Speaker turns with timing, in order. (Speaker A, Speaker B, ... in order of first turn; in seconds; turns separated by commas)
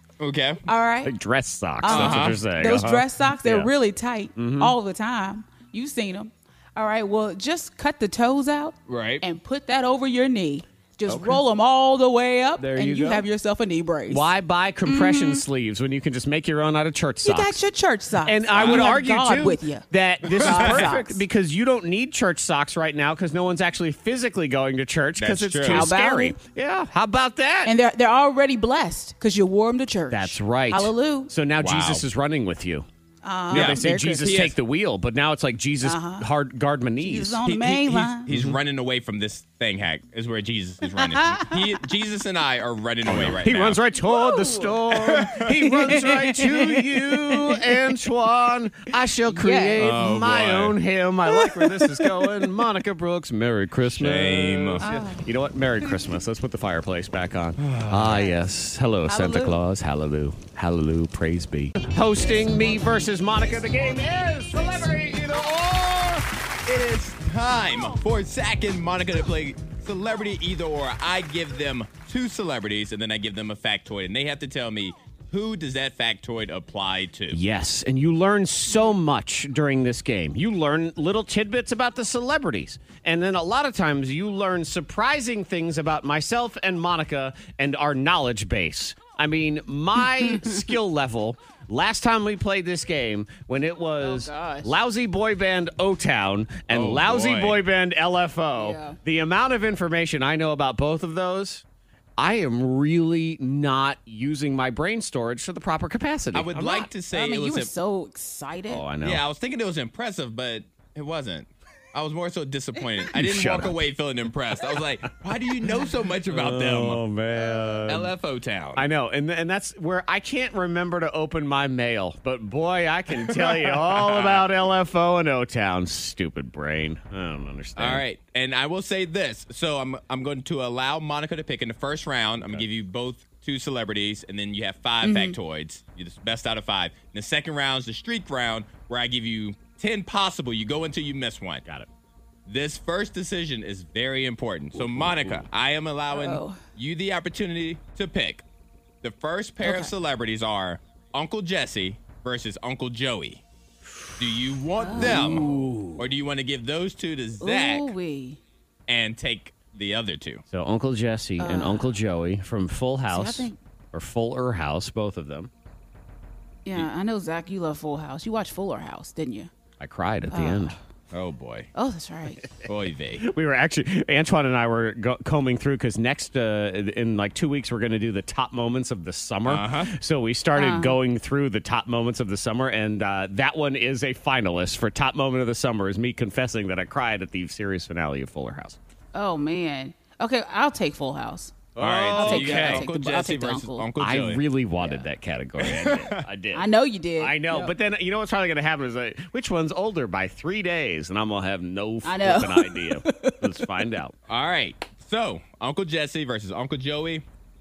Speaker A: 0.2-0.6, Speaker B: 0.7-1.1, Speaker C: 1.0-3.7, Speaker B: 1.8-14.3, Speaker A: 1.9-2.4, Speaker C: 4.4-4.7, Speaker A: 8.9-9.2, Speaker C: 11.1-11.4, Speaker C: 12.6-13.2, Speaker C: 14.1-17.6, Speaker B: 14.8-15.4, Speaker B: 17.2-21.2, Speaker C: 18.3-27.7, Speaker A: 18.5-18.9, Speaker A: 20.3-20.8, Speaker A: 25.2-25.9, Speaker B: 25.7-26.4, Speaker B: 27.6-31.3, Speaker C: 30.1-32.9, Speaker A: 31.6-32.0, Speaker B: 33.2-34.4, Speaker C: 33.5-37.4, Speaker A: 33.5-34.6, Speaker B: 35.8-36.3, Speaker B: 37.0-38.3, Speaker A: 37.4-43.8, Speaker C: 38.3-38.6, Speaker B: 40.9-41.6, Speaker C: 43.0-66.3, Speaker B: 44.0-44.9, Speaker A: 45.0-45.5, Speaker B: 45.5-47.6, Speaker B: 49.3-49.9, Speaker A: 49.8-50.8, Speaker B: 51.3-52.3, Speaker A: 53.8-54.9, Speaker B: 54.8-55.2, Speaker A: 57.6-58.2, Speaker B: 58.2-58.4, Speaker B: 59.1-59.6, Speaker A: 66.7-77.4, Speaker C: 77.3-101.6, Speaker B: 94.0-94.8, Speaker A: 96.7-97.6, Speaker B: 98.5-99.0, Speaker C: 102.2-106.9, Speaker A: 106.3-107.7, Speaker B: 107.0-108.9, Speaker C: 108.7-109.2, Speaker A: 109.0-117.0, Speaker C: 113.1-113.8, Speaker C: 116.3-118.1, Speaker A: 117.9-118.9, Speaker C: 118.8-128.0, Speaker A: 123.1-124.5, Speaker A: 127.8-141.6, Speaker B: 135.0-135.4, Speaker A: 142.5-148.4, Speaker C: 144.8-145.5, Speaker B: 146.1-146.6, Speaker A: 149.0-153.4, Speaker B: 149.6-149.9, Speaker A: 154.2-157.9, Speaker B: 154.8-155.8, Speaker C: 154.9-156.0, Speaker B: 157.4-158.4, Speaker A: 158.9-160.4, Speaker C: 160.5-165.5, Speaker B: 161.4-161.9, Speaker B: 163.1-163.6, Speaker B: 166.7-169.5, Speaker C: 169.8-170.8, Speaker B: 170.3-170.8, Speaker A: 171.1-171.7, Speaker B: 171.7-172.5, Speaker A: 172.6-173.2, Speaker C: 173.2-188.8, Speaker A: 179.5-179.9, Speaker B: 180.6-181.0, Speaker B: 189.1-193.9, Speaker C: 191.8-192.9, Speaker A: 191.8-194.4, Speaker C: 194.0-196.7, Speaker A: 195.6-196.3, Speaker B: 196.5-197.7, Speaker C: 197.2-204.2, Speaker B: 202.0-203.7, Speaker A: 204.3-207.2